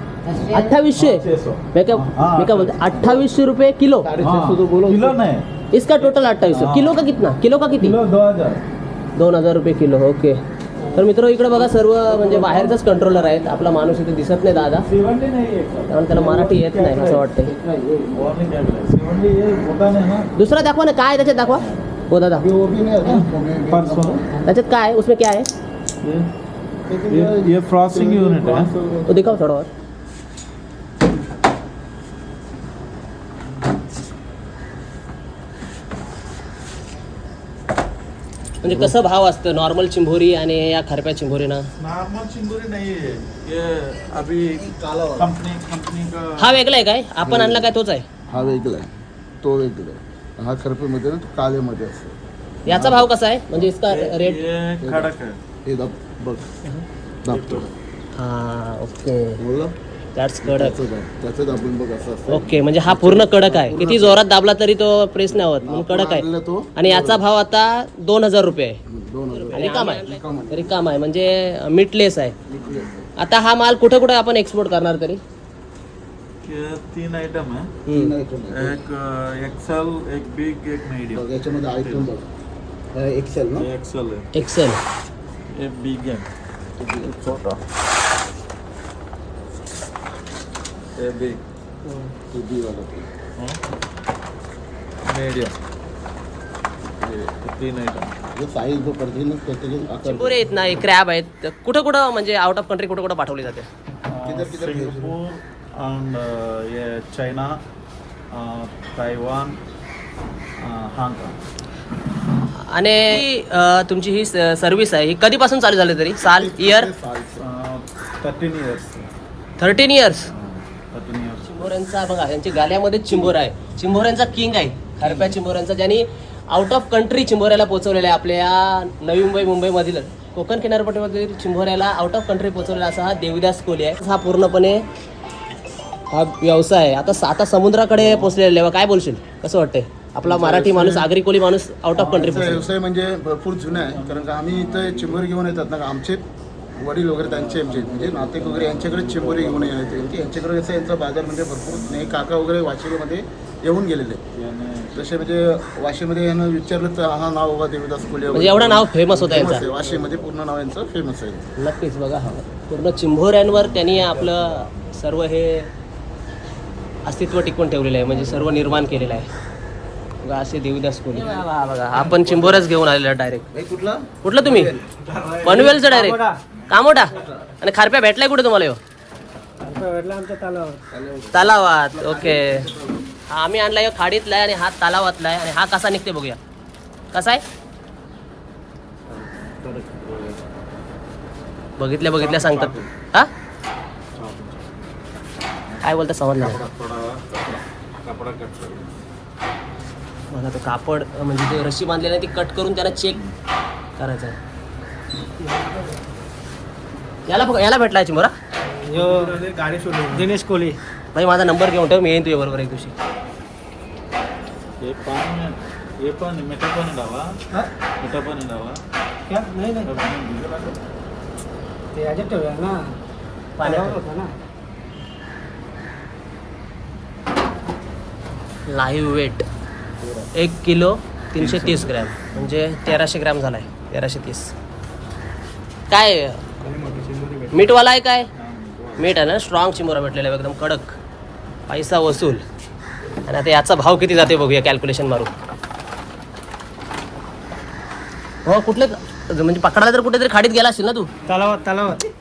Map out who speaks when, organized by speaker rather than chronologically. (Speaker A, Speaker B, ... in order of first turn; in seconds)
Speaker A: 0.5-4.1, 5.7-8.0, 9.2-10.4, 10.9-14.9, 15.9-17.5, 20.4-22.5, 24.4-25.5, 29.1-29.7, 38.6-41.7, 46.4-48.1, 52.7-54.4, 58.2-59.4, 60.2-60.8, 62.3-66.2, 66.8-68.8, 69.5-72.3, 73.2-75.2, 77.9-78.1, 84.3-84.8, 100.0-103.7, 112.6-116.9, 119.6-120.3, 121.5-134.8, 136.1-142.7, 158.3-159.6, 161.6-165.7, 167.1-169.3, 170.2-173.5, 174.2-174.7, 175.4-178.8, 181.3-182.7, 183.3-186.4, 187.1-187.4, 191.8-193.3, 195.8-196.6, 200.3-203.2, 204.0-204.4, 207.3-208.3, 211.1-213.0, 223.6-224.0, 228.7-229.5, 230.3-234.5, 235.9-236.4, 237.5-238.3, 239.0-241.0, 241.7-242.4, 243.2-245.3, 248.4-251.1
Speaker B: 1.0-3.2, 4.2-5.5, 6.0-7.0, 7.8-8.6, 10.8-13.7, 14.6-17.3, 18.1-20.3, 23.1-24.2, 26.0-26.3, 27.1-28.7, 41.8-46.6, 53.9-55.4, 57.3-57.7, 72.6-73.0, 76.5-77.8, 78.5-81.2, 81.8-82.1, 83.6-84.3, 85.5-86.3, 87.0-87.6, 91.0-91.4, 93.4-93.7, 95.0-95.6, 97.4-98.2, 104.1-107.6, 108.3-109.6, 110.6-111.4, 117.4-119.1, 120.3-121.8, 125.0-125.3, 137.9-138.4, 140.2-141.1, 141.9-142.7, 143.7-145.2, 147.2-150.3, 151.7-152.3, 154.3-155.3, 159.1-160.3, 163.5-164.9, 168.0-169.2, 172.1-172.5, 175.1-175.6, 189.1-190.4, 192.0-192.9, 194.2-194.8, 195.7-198.9, 208.9-210.3, 214.8-217.4, 218.0-218.8, 219.8-220.8, 231.4-232.5, 236.6-237.6, 238.3-239.3
Speaker C: 3.1-3.3, 4.0-5.2, 17.4-18.4, 22.4-24.3, 26.9-29.4, 38.6-39.0, 44.4-45.3, 47.2-47.7, 48.3-52.1, 52.7-53.7, 54.8-55.1, 55.6-56.5, 57.2-57.7, 59.4-59.8, 60.4-64.2, 65.3-67.2, 68.9-70.8, 72.5-73.1, 77.9-78.8, 81.1-82.3, 82.9-83.7, 86.8-87.2, 92.3-93.1, 97.0-97.3, 98.3-100.4, 104.2-105.2, 116.2-117.4, 140.3-141.0, 142.1-154.2, 154.9-161.5, 173.5-175.1, 180.9-183.1, 230.0-230.3
Speaker D: 175.4-176.4, 179.6-180.8, 205.4-205.9, 208.7-209.3, 210.1-210.8, 219.3-219.9, 221.9-222.9, 223.6-224.3, 251.3-252.1